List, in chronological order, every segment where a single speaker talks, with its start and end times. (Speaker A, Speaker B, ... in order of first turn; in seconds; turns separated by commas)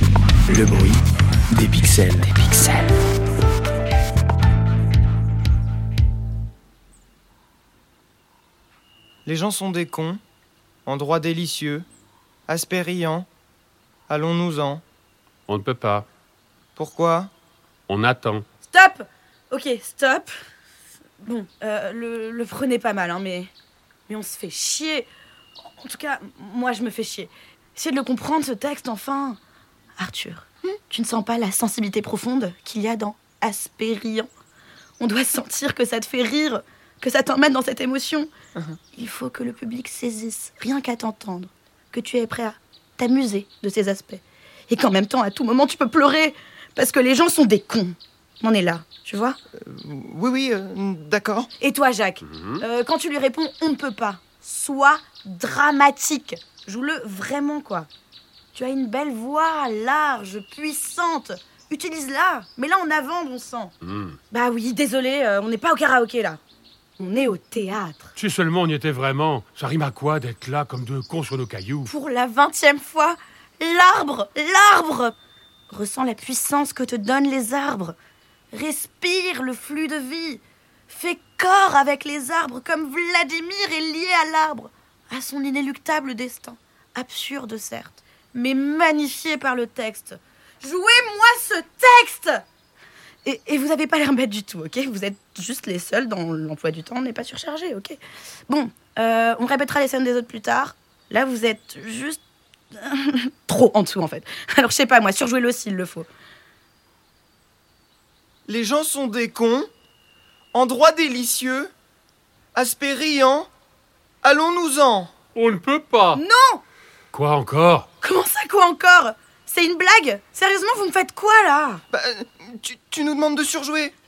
Speaker A: 0.5-1.0, Speaker A: 1.5-2.9, Speaker B: 9.3-10.2, Speaker B: 10.9-11.9, Speaker B: 12.5-13.3, Speaker B: 14.1-14.8, Speaker C: 15.5-16.1, Speaker B: 16.8-17.3, Speaker C: 17.9-18.4, Speaker D: 18.6-20.4, Speaker D: 21.2-23.5, Speaker D: 24.1-25.1, Speaker D: 25.7-29.4, Speaker D: 30.0-34.3, Speaker D: 35.0-38.3, Speaker D: 38.9-49.4, Speaker B: 49.6-51.5, Speaker D: 51.6-57.9, Speaker C: 52.2-52.6, Speaker D: 58.5-63.7, Speaker C: 63.8-64.2, Speaker D: 64.3-66.4, Speaker D: 67.0-68.1, Speaker C: 68.2-71.9, Speaker D: 71.9-75.2, Speaker D: 75.7-78.0, Speaker D: 78.5-92.4, Speaker D: 93.2-102.2, Speaker D: 102.7-106.1, Speaker B: 108.5-109.7, Speaker B: 110.5-111.7, Speaker B: 112.5-113.5, Speaker B: 114.2-115.1, Speaker C: 115.3-116.2, Speaker D: 116.2-116.6, Speaker C: 117.1-117.9, Speaker D: 118.0-121.8, Speaker B: 121.9-123.9